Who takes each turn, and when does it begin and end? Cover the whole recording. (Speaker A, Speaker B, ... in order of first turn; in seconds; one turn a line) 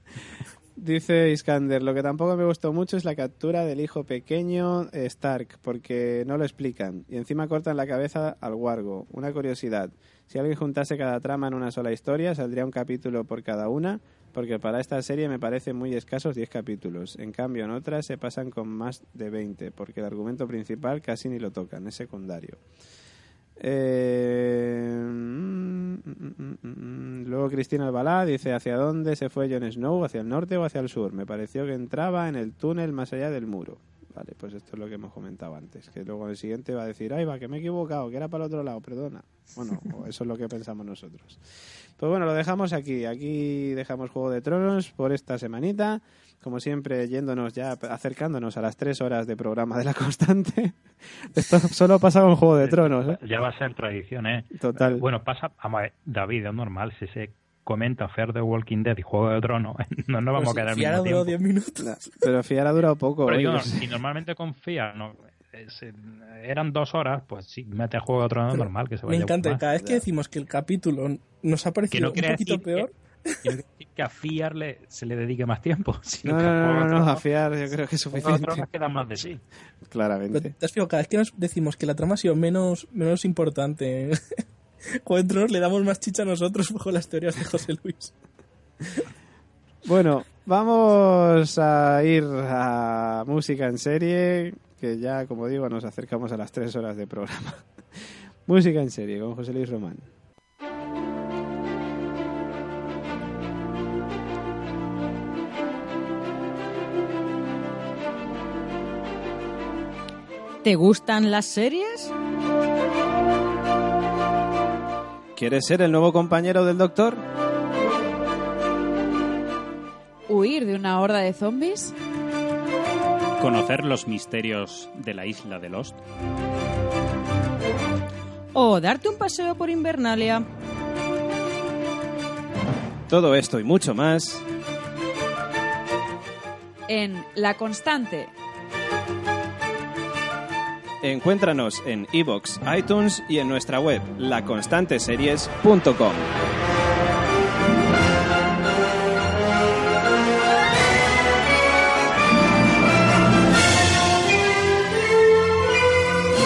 Speaker A: 0.8-22.6
Speaker A: 23.6-41.4
Speaker A: 42.0-50.8
Speaker A: 51.3-53.2
Speaker B: 52.6-61.4
Speaker A: 54.5-55.0
Speaker C: 60.4-62.1
Speaker A: 61.8-63.9
Speaker B: 63.3-69.6
Speaker C: 68.5-73.4
Speaker A: 69.8-70.0
Speaker B: 71.9-72.9
Speaker B: 73.4-77.2
Speaker A: 76.2-78.7
Speaker B: 78.1-79.4
Speaker A: 79.9-80.5
Speaker C: 80.3-84.4
Speaker C: 85.0-88.1
Speaker A: 89.8-97.7
Speaker A: 98.5-100.1
Speaker D: 110.6-112.1
Speaker A: 115.4-117.2
Speaker E: 120.3-121.9
Speaker F: 123.4-126.0
Speaker D: 128.5-130.4
Speaker A: 133.1-134.4
Speaker E: 136.9-138.3
Speaker A: 141.0-146.3